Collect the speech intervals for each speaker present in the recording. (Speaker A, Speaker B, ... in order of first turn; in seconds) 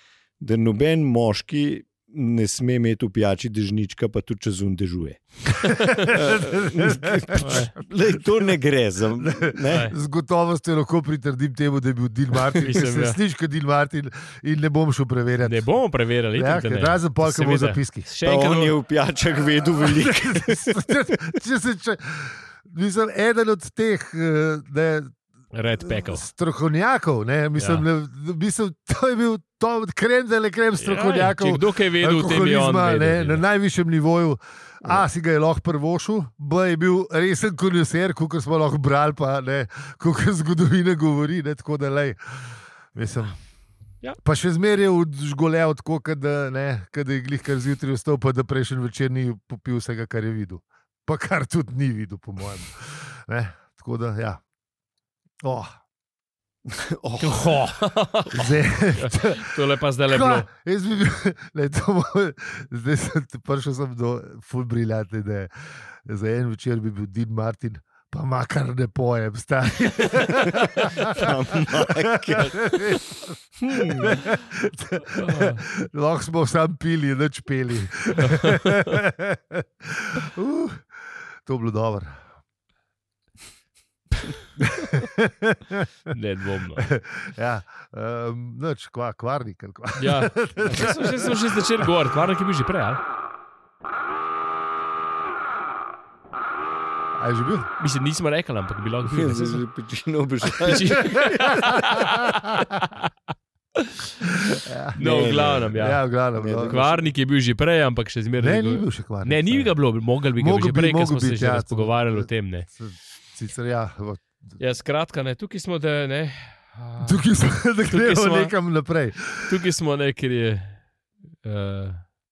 Speaker A: 0.4-5.5, 6.1-9.9, 18.2-21.0, 56.7-57.6, 71.1-72.8, 73.6-74.2, 99.1-101.6, 105.0-105.8, 106.3-107.0
Speaker B: 5.6-6.1, 7.4-7.8, 9.7-9.9, 12.6-13.2, 15.4-18.8, 25.5-26.2, 27.6-27.9, 30.8-33.4, 57.2-60.5, 75.1-75.6, 78.2-78.8, 86.1-86.9, 90.0-93.0, 97.8-99.6, 100.5-103.1, 103.8-106.0, 106.6-112.7, 114.6-117.3, 117.9-118.5, 119.5-120.8, 121.4-122.0
Speaker C: 5.7-7.7, 9.2-15.7, 16.3-18.1, 19.7-25.1, 25.8-43.4, 44.2-54.4, 55.4-55.7, 58.3-82.2, 84.6-85.9, 86.8-91.9, 97.2-97.7, 101.0-102.7, 104.6-106.8, 108.4-109.8, 110.4-114.6, 117.0-119.6